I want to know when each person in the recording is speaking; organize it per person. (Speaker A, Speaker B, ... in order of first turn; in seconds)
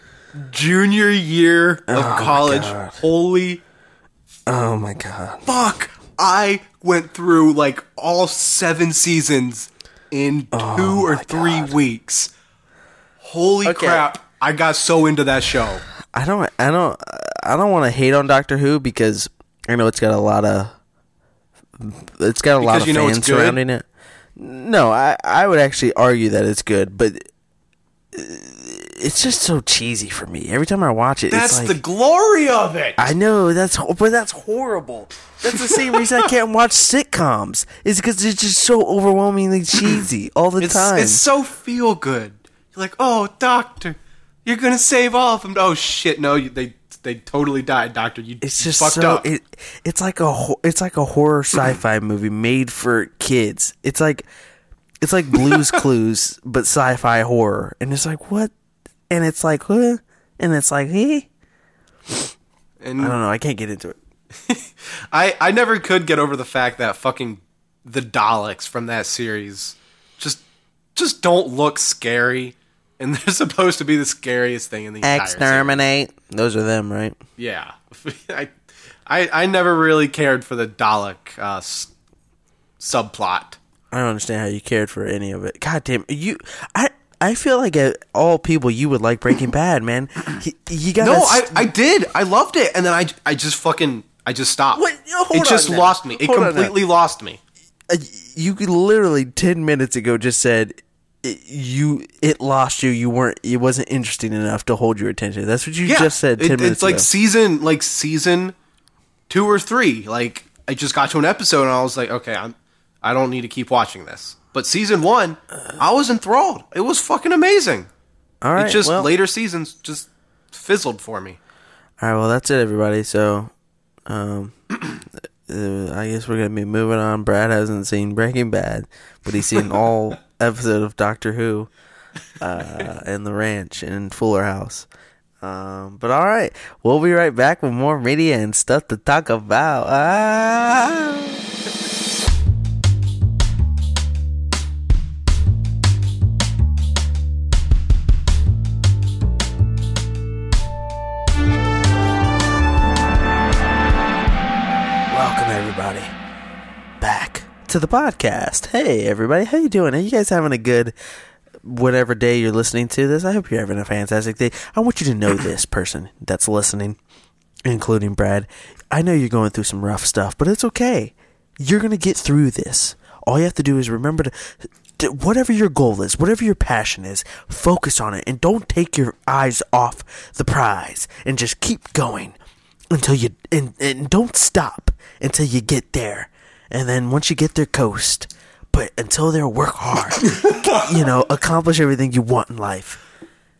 Speaker A: 0.3-3.6, 5.4-12.3, 13.2-15.8, 22.6-23.6, 31.3-33.1, 35.5-36.2, 40.6-49.2, 62.8-63.2, 64.5-70.4, 70.9-75.8, 77.4-81.9, 82.8-83.6, 91.0-97.4, 105.8-108.5, 109.3-117.9, 118.5-121.4, 190.3-190.9
Speaker B: 1.9-3.0, 4.5-5.4, 10.5-11.8, 13.6-14.0, 16.1-20.7, 21.8-27.3, 28.1-31.8, 33.0-41.2, 48.4-54.3, 55.0-58.5, 59.1-61.3, 63.0-64.0, 75.0-77.2, 83.9-91.5, 94.7-96.7, 97.9-107.0, 118.4-119.1, 122.0-123.5, 124.0-124.5, 125.5-131.7, 132.4-134.9, 135.4-141.4, 155.1-156.1, 157.0-160.9, 161.6-167.0, 167.6-182.3, 182.9-193.0